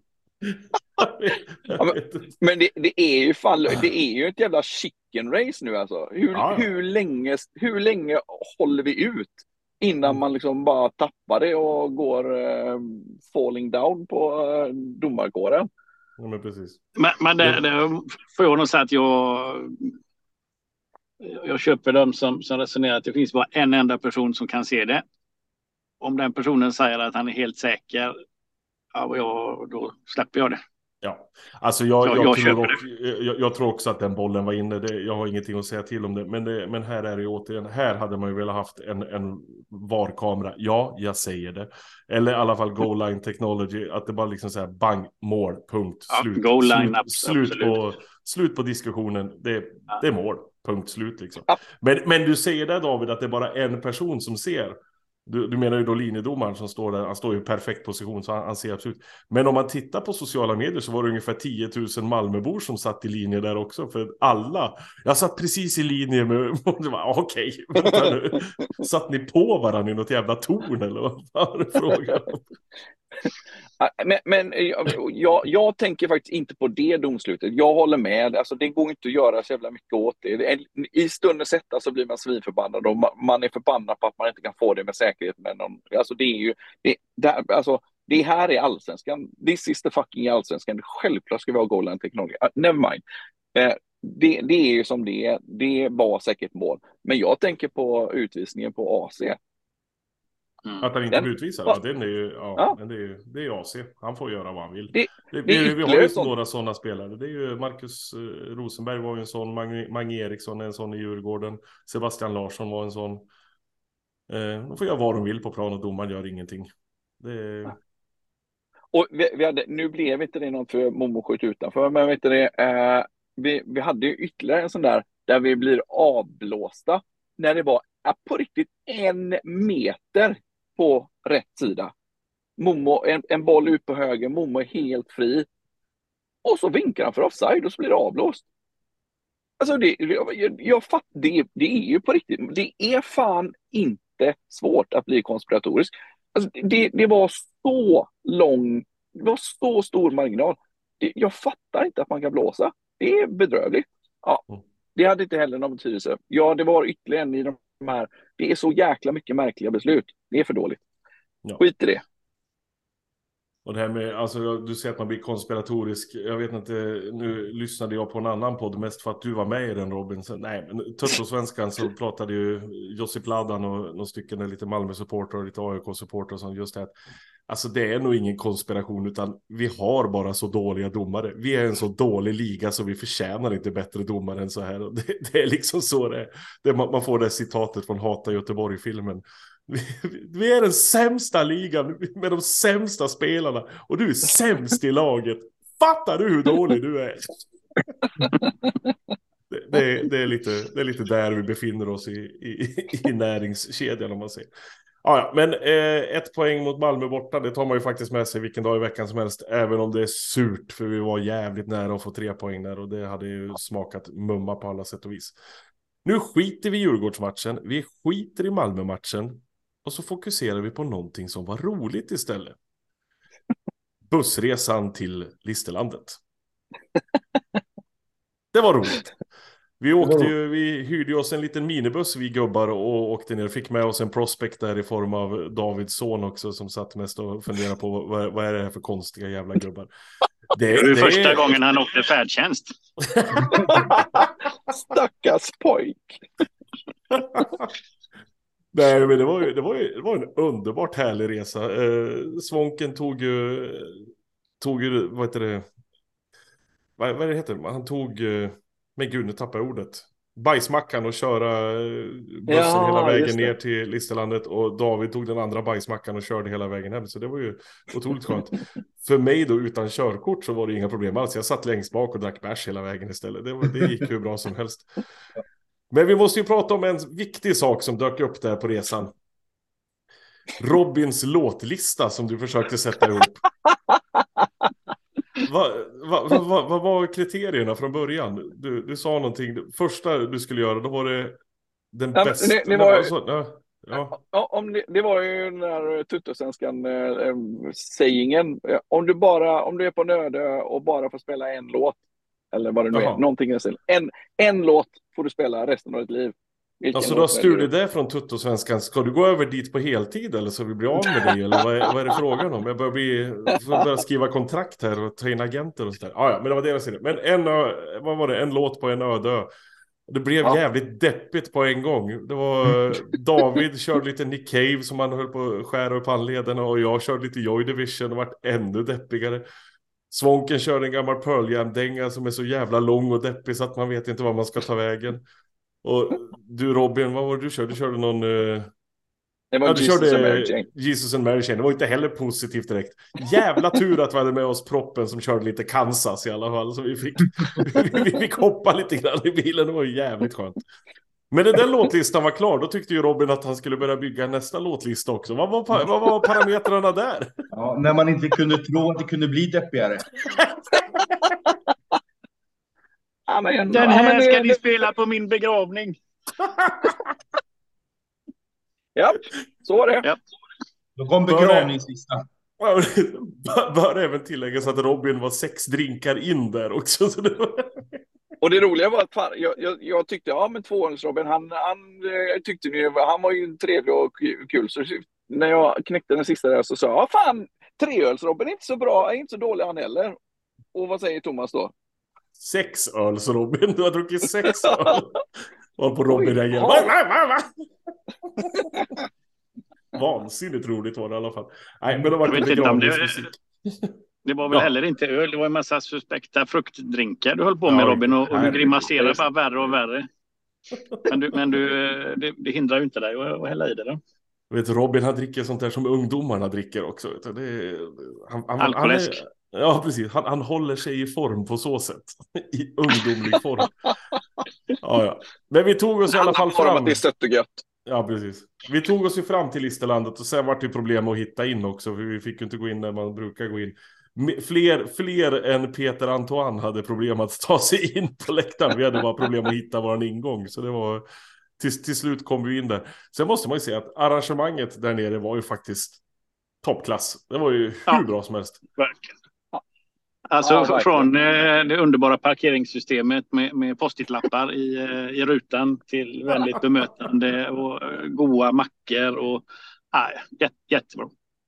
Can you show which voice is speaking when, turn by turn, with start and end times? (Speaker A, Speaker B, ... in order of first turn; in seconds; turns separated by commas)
Speaker A: 0.4-2.3, Speaker B: 1.7-15.7, Speaker A: 6.3-6.7, Speaker A: 16.2-16.8, Speaker C: 17.0-19.9, Speaker C: 21.2-25.0, Speaker C: 26.0-28.1, Speaker C: 28.9-30.6, Speaker A: 31.0-72.4, Speaker C: 32.0-32.8, Speaker C: 46.1-47.8, Speaker B: 73.8-93.0, Speaker B: 93.5-99.4, Speaker A: 100.8-113.3, Speaker B: 101.1-101.8, Speaker B: 104.9-106.3, Speaker A: 114.3-116.7, Speaker A: 117.2-117.8, Speaker B: 118.9-131.9, Speaker B: 132.6-135.5, Speaker B: 136.4-138.4, Speaker B: 139.6-154.4, Speaker B: 154.9-160.8, Speaker B: 161.6-162.0, Speaker A: 163.7-176.9, Speaker A: 177.5-197.4, Speaker A: 199.5-204.5, Speaker A: 205.0-215.4, Speaker A: 216.1-222.6, Speaker A: 224.1-226.2, Speaker A: 228.5-229.1, Speaker A: 229.8-239.9, Speaker A: 240.5-241.6, Speaker C: 240.7-242.7, Speaker A: 243.0-244.2, Speaker B: 243.5-244.3, Speaker B: 244.9-246.2, Speaker A: 247.1-247.7, Speaker A: 248.7-255.7, Speaker A: 257.0-274.9, Speaker B: 262.5-263.5, Speaker A: 275.9-279.1, Speaker A: 280.6-283.5, Speaker B: 284.2-284.5, Speaker A: 285.4-291.4, Speaker A: 291.9-294.1, Speaker B: 292.1-293.1, Speaker B: 294.1-302.0, Speaker B: 302.5-307.7, Speaker A: 302.9-303.2, Speaker A: 306.9-319.5, Speaker A: 320.1-329.4, Speaker A: 330.1-335.2, Speaker A: 335.8-338.7, Speaker B: 339.5-340.7, Speaker A: 339.6-350.6, Speaker A: 351.3-357.4, Speaker D: 357.5-360.2, Speaker A: 360.2-361.3, Speaker B: 363.3-364.6, Speaker C: 363.7-366.0, Speaker A: 366.4-367.0, Speaker B: 369.0-370.1, Speaker D: 371.0-372.2, Speaker A: 371.3-371.7, Speaker A: 372.6-378.0, Speaker B: 378.4-390.2, Speaker B: 390.7-391.7, Speaker A: 392.4-395.2, Speaker B: 394.7-395.0, Speaker A: 395.8-397.6, Speaker B: 396.1-396.9, Speaker A: 399.9-404.0, Speaker C: 402.3-403.3, Speaker C: 404.2-410.1, Speaker A: 407.7-409.2, Speaker C: 411.1-414.0, Speaker A: 414.5-423.7, Speaker C: 418.6-419.2, Speaker A: 424.8-427.0, Speaker B: 426.1-427.6, Speaker A: 427.9-441.0, Speaker A: 441.6-446.0, Speaker A: 446.6-448.6, Speaker C: 448.8-449.1, Speaker C: 450.3-461.1, Speaker B: 450.4-451.1